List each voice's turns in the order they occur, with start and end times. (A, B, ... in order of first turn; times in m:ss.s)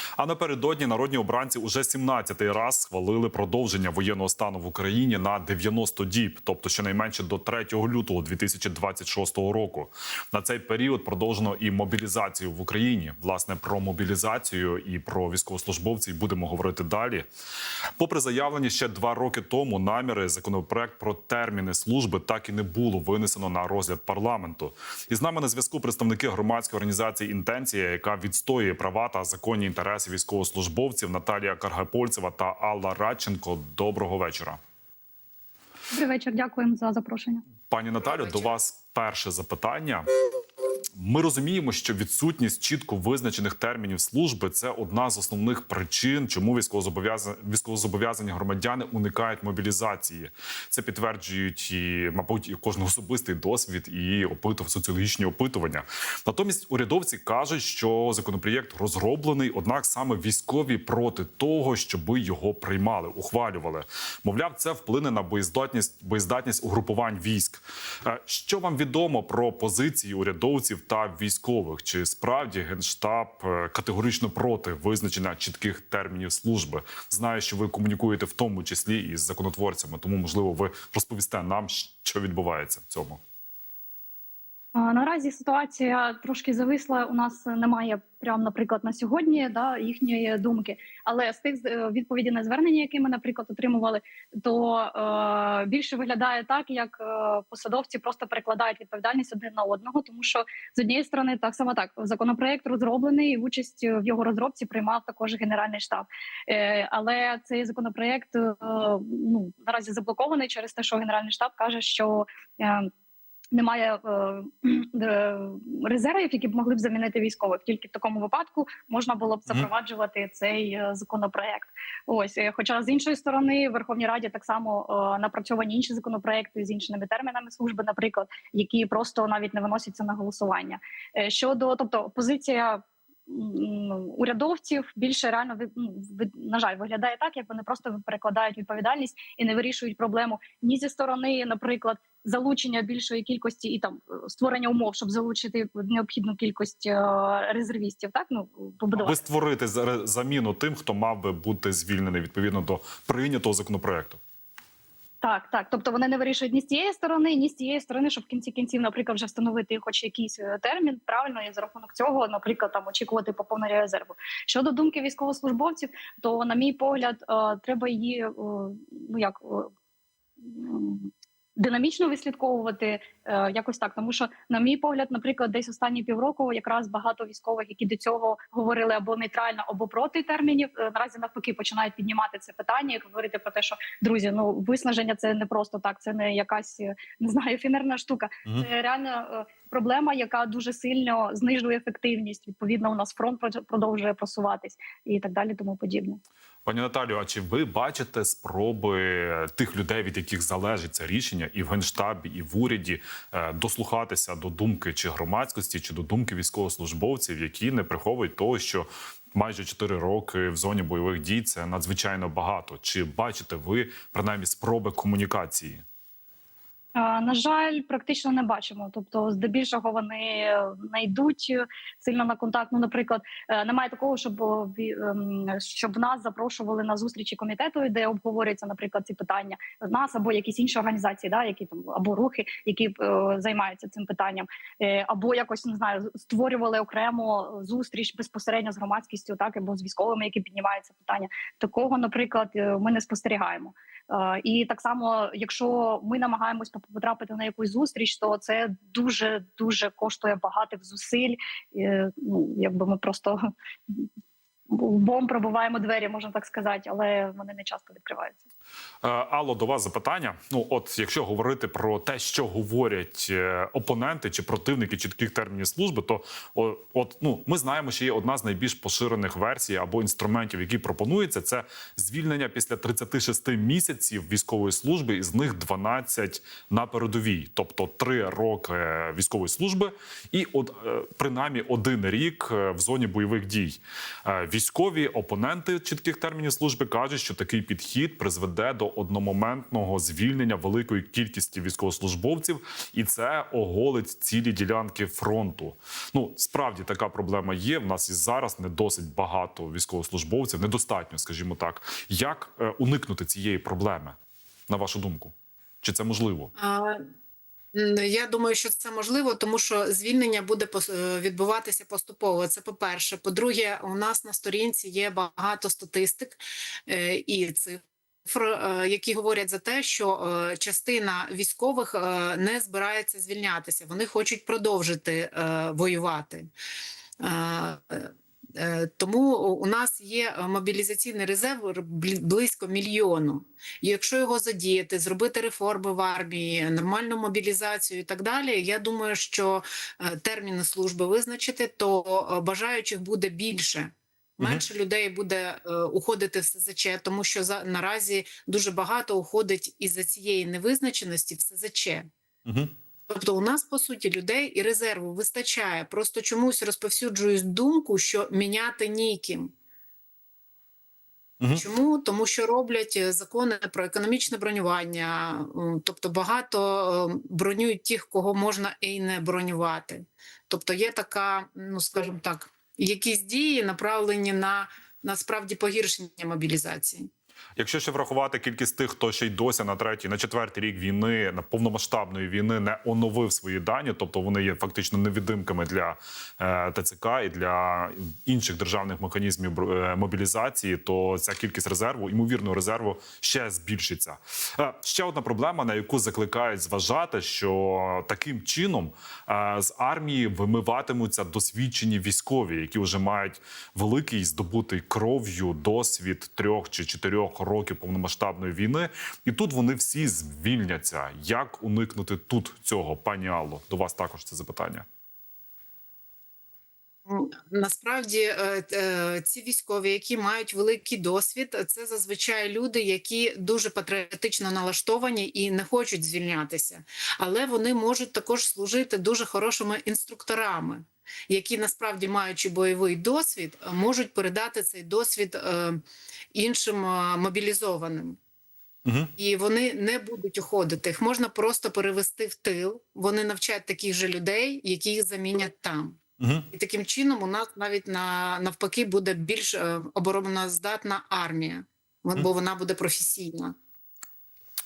0:00.2-0:17.3 A
0:18.0-0:34.6 A
0:35.9-0:37.4 B
0:37.7-0:40.1 A
0:38.0-0:38.5 C
0:41.0-1:23.2 A
1:24.8-1:52.9 B
1:53.5-2:29.3 B
2:29.0-2:34.2 A
2:35.2-2:49.7 B
2:50.4-3:16.2 B
3:16.7-3:35.8 A
3:37.0-4:14.1 B
4:14.7-4:18.4 B
4:19.0-5:04.2 A
5:04.7-5:06.5 A
5:06.6-5:07.0 C
5:07.7-5:26.5 C
5:27.2-5:52.1 C
5:44.4-5:44.7 A
5:52.5-5:52.7 A
5:53.1-5:59.5 C
6:01.5-6:17.1 C
6:17.6-6:54.9 A
6:57.1-7:15.8 C
7:16.3-7:18.2 C
7:18.8-7:19.1 A
7:19.2-7:26.0 C
7:26.2-7:26.5 A
7:26.5-7:33.6 C